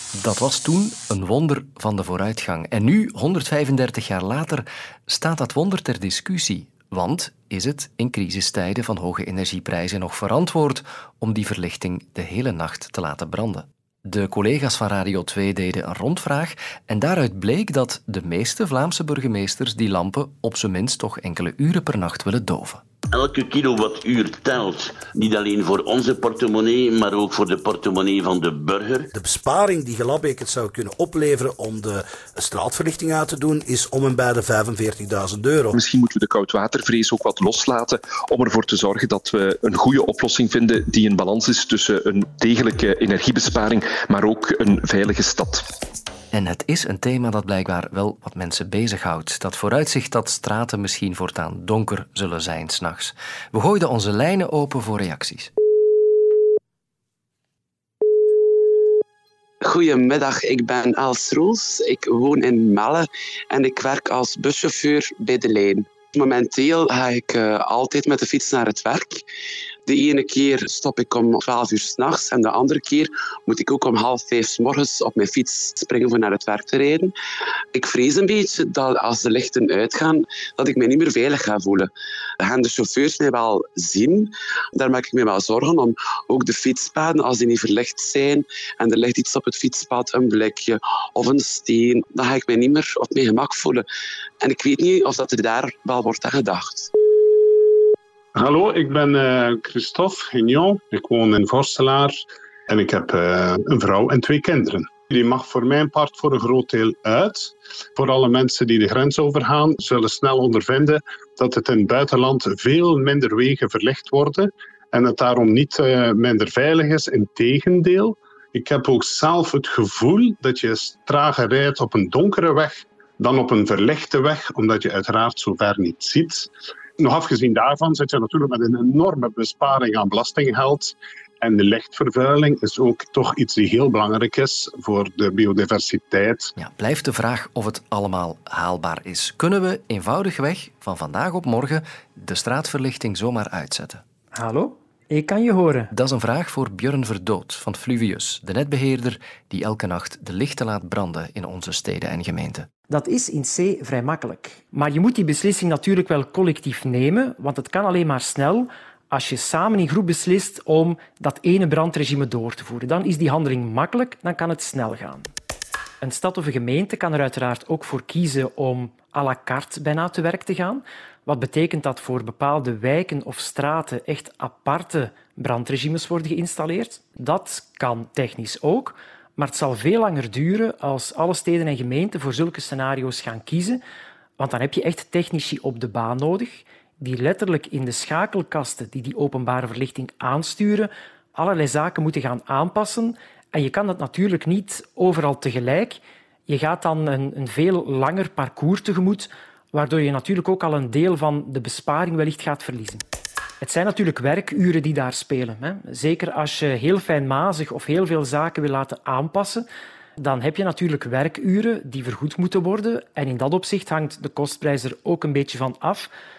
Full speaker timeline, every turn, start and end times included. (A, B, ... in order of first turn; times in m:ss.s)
0:00.2-0:22.8 A
0:23.1-0:29.1 B
0:29.1-0:35.8 C
0:35.8-0:45.6 D
0:46.3-0:55.5 A
0:59.6-1:09.2 E
1:09.8-1:17.1 E
1:17.7-1:33.8 E
1:34.4-1:36.9 E
1:38.3-1:42.2 F
1:42.7-2:06.5 F
2:07.0-2:16.5 F
2:16.6-2:24.0 A
2:24.3-2:25.9 G
2:25.9-2:32.7 A
2:32.9-2:45.3 G
2:46.0-3:03.8 G
3:04.4-3:23.0 G
3:23.6-3:29.6 G
3:30.2-3:36.1 G